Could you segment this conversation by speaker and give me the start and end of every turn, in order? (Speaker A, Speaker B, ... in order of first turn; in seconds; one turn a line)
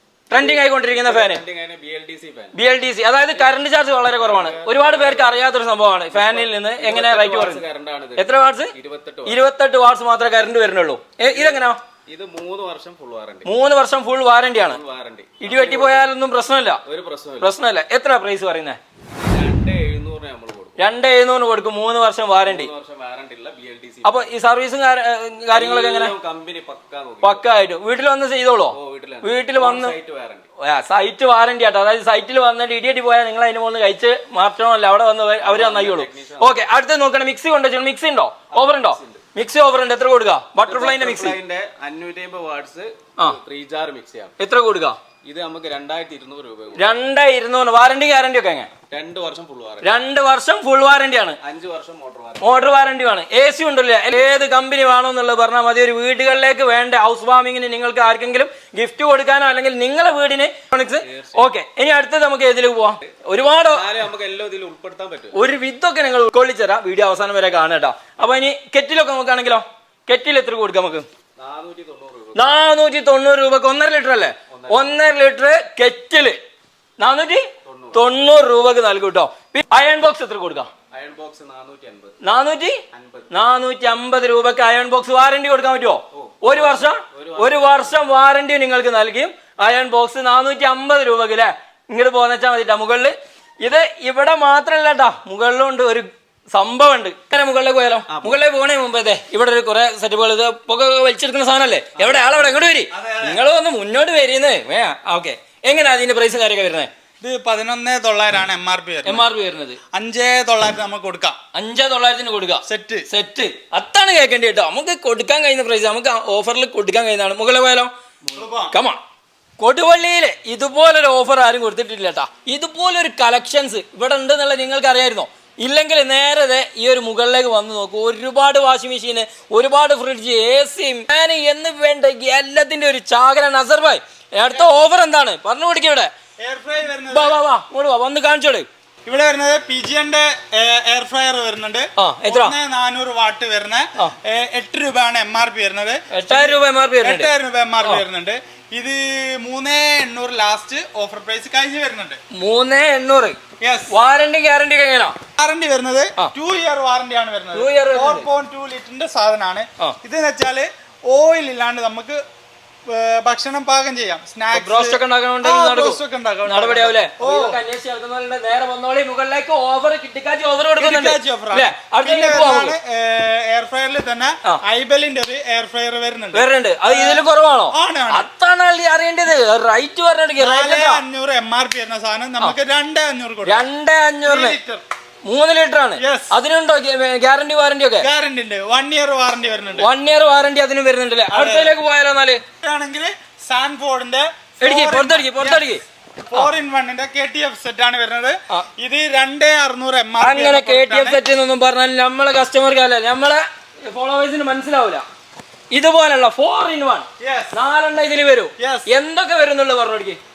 Speaker A: 0.3-1.4
Speaker B: 0.3-2.5
Speaker A: 2.5-7.6
Speaker B: 4.1-5.4
Speaker B: 6.1-9.4
Speaker A: 8.2-8.7
Speaker A: 9.2-11.8
Speaker B: 11.3-13.5
Speaker A: 13.4-14.8
Speaker B: 14.7-16.1
Speaker A: 15.4-16.8
Speaker B: 16.9-17.5
Speaker A: 17.4-18.8
Speaker B: 19.1-20.7
Speaker A: 20.8-22.7
Speaker B: 22.4-24.3
Speaker A: 24.0-26.1
Speaker B: 25.5-27.4
Speaker A: 27.2-30.0
Speaker B: 28.7-30.5
Speaker A: 30.6-41.4
Speaker B: 35.4-36.7
Speaker B: 38.5-39.2
Speaker B: 40.6-44.3
Speaker A: 44.4-45.0
Speaker B: 45.2-46.8
Speaker A: 46.7-48.7
Speaker B: 48.9-49.9
Speaker A: 49.8-51.4
Speaker B: 51.4-52.6
Speaker A: 52.4-63.9
Speaker B: 61.0-61.4
Speaker B: 63.7-65.4
Speaker A: 65.3-71.0
Speaker B: 71.4-72.5
Speaker A: 72.3-76.4
Speaker B: 74.5-74.8
Speaker A: 77.0-80.7
Speaker B: 77.6-78.0
Speaker B: 80.9-82.2
Speaker A: 82.2-82.8
Speaker B: 82.9-83.3
Speaker A: 83.3-106.9
Speaker B: 86.1-88.1
Speaker B: 98.1-98.4
Speaker B: 102.0-102.5
Speaker C: 102.9-103.4
Speaker C: 107.2-109.2
Speaker A: 109.0-109.8
Speaker C: 109.9-111.3
Speaker A: 111.5-117.9
Speaker C: 112.7-113.1
Speaker C: 118.4-118.7
Speaker A: 118.7-119.0
Speaker A: 119.6-136.1
Speaker C: 136.4-137.4
Speaker A: 137.1-138.7
Speaker C: 139.1-152.2
Speaker A: 142.0-142.5
Speaker A: 146.1-147.3
Speaker A: 152.3-153.4
Speaker C: 153.6-153.9
Speaker A: 153.9-155.2
Speaker C: 155.4-162.2
Speaker A: 157.5-158.3
Speaker C: 162.9-167.6
Speaker A: 164.5-172.8
Speaker C: 170.8-178.3
Speaker A: 176.3-181.0
Speaker C: 180.4-183.7
Speaker A: 183.4-184.6
Speaker C: 184.2-184.8
Speaker A: 185.2-188.1
Speaker C: 186.0-186.3
Speaker C: 188.0-189.9
Speaker A: 189.8-192.4
Speaker C: 191.3-191.7
Speaker C: 192.6-195.7
Speaker A: 194.6-195.8
Speaker C: 196.2-201.2
Speaker A: 200.2-205.0
Speaker A: 205.7-210.2
Speaker C: 207.2-207.6
Speaker C: 208.6-208.9